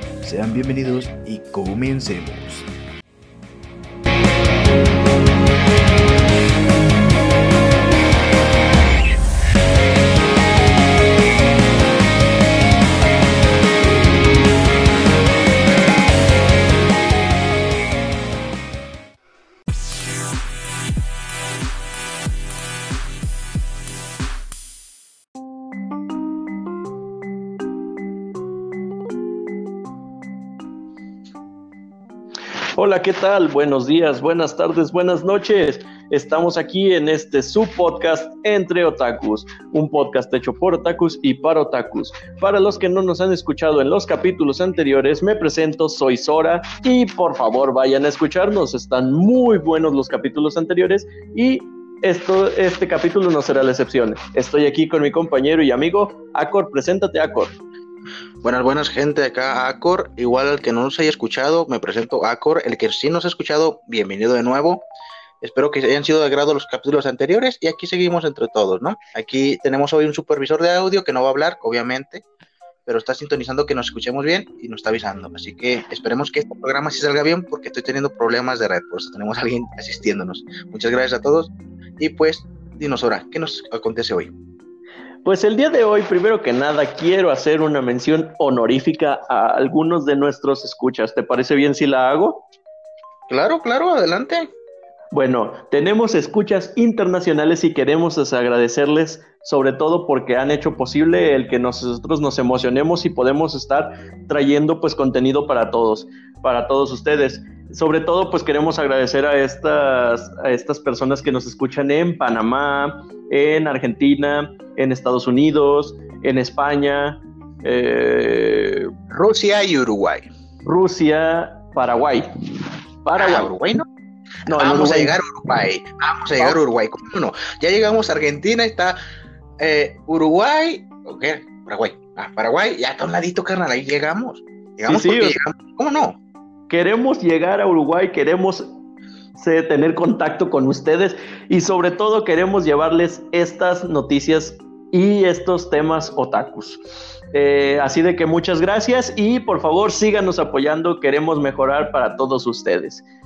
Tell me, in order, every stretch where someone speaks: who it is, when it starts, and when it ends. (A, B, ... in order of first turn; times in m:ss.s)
0:00.2-0:02.7 A
0:32.8-0:57.6 B
0:58.4-1:04.9 C
1:05.4-1:12.2 C
1:12.9-1:24.3 C
1:25.2-1:32.5 B
1:33.3-1:34.5 C
1:35.1-1:58.9 B
1:59.1-2:00.3 C
2:00.6-2:02.3 B
2:03.0-2:03.5 B
2:03.2-2:03.9 C
2:04.5-2:05.2 B
2:04.5-2:09.0 C
2:09.6-2:16.2 C
2:14.9-2:15.4 B
2:16.7-2:18.8 B
2:19.4-2:33.0 B